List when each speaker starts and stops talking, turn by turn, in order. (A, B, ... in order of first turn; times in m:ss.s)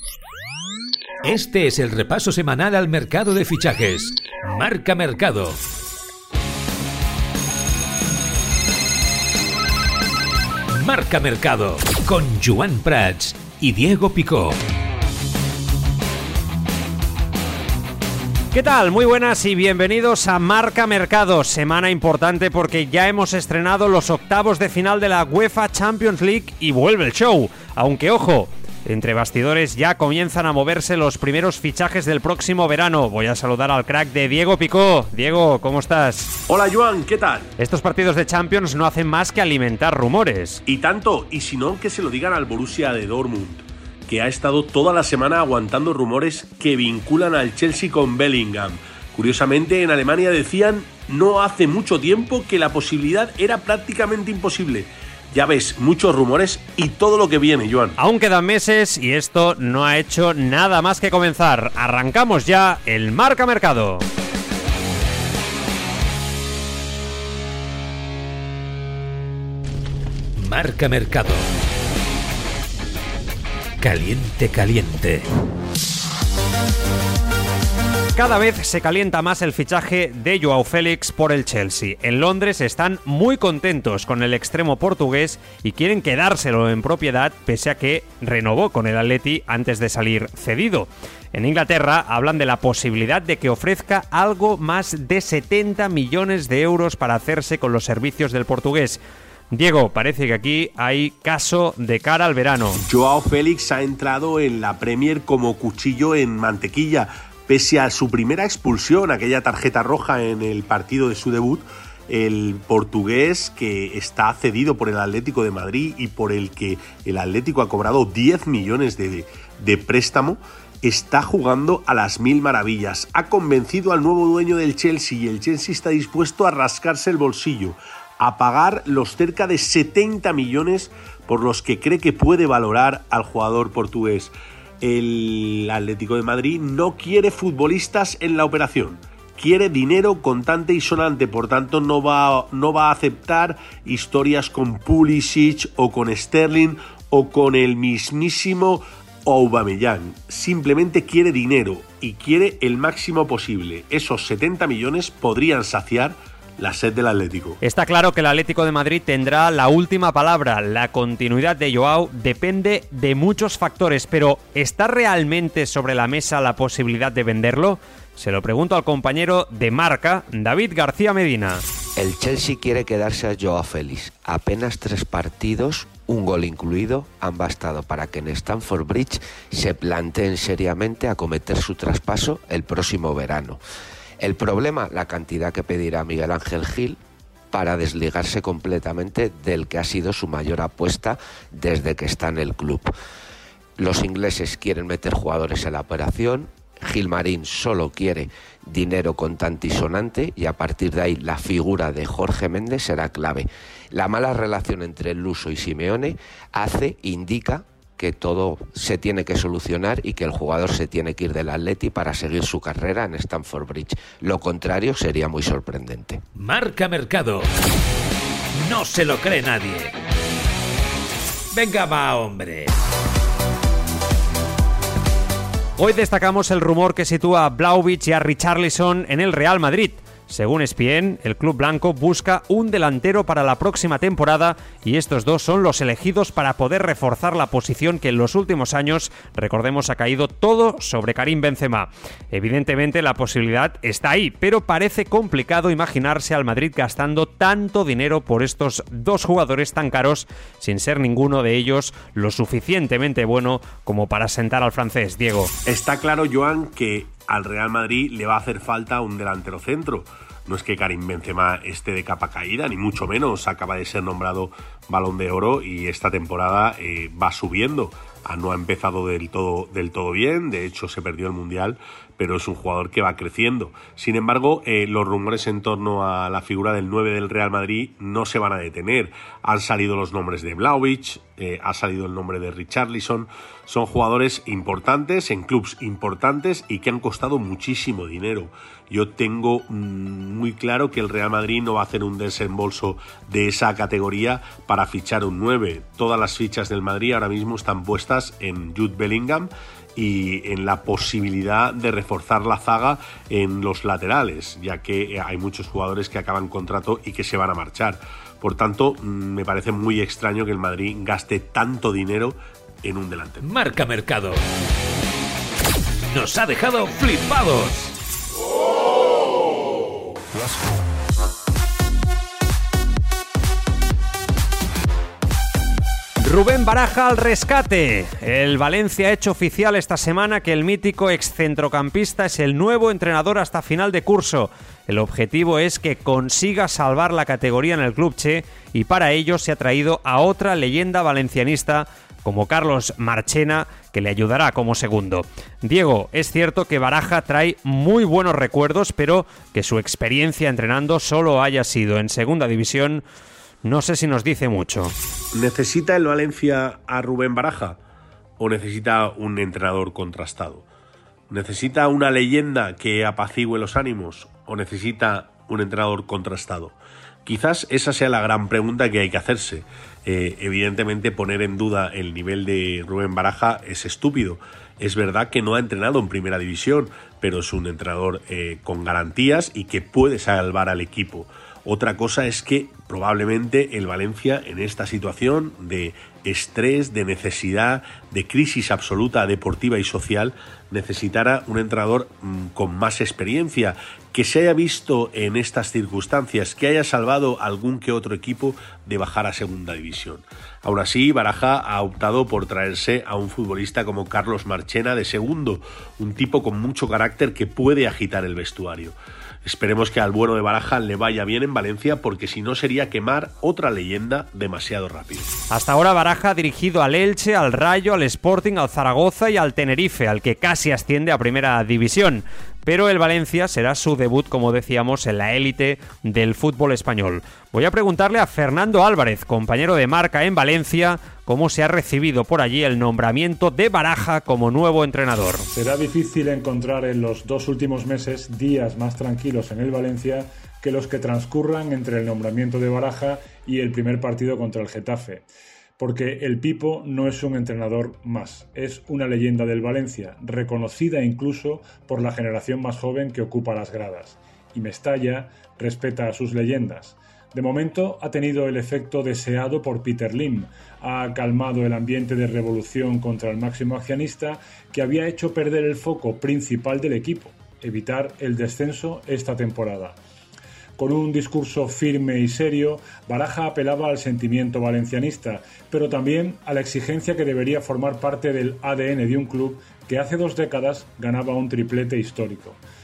0:01.2-0:05.6 A
0:10.7-0:14.6 A
0:18.5-0:36.3 B
0:36.5-0:37.5 C
0:37.6-0:40.6 B
0:40.7-0:58.0 C
0:58.0-1:04.0 B
1:10.4-1:11.4 A
1:13.8-1:15.3 A
1:18.2-1:42.8 B
1:42.8-2:37.6 C
2:37.6-2:51.6 B
2:52.0-3:03.6 D
3:04.2-3:07.0 D
3:07.5-3:12.9 D
3:13.8-3:36.2 D
3:36.4-3:37.5 A
3:38.6-3:40.0 A
3:41.5-3:42.7 A
3:45.8-4:15.5 B
4:15.7-5:13.4 C
5:13.4-5:14.4 A
5:16.1-5:17.9 A
5:26.2-5:53.0 B
5:53.6-5:54.9 B
5:55.3-5:57.8 C
5:58.4-6:00.7 C
6:01.3-6:55.3 C
6:55.5-7:15.5 B
7:15.5-7:25.3 E
7:25.8-7:50.0 E
7:50.8-8:02.6 E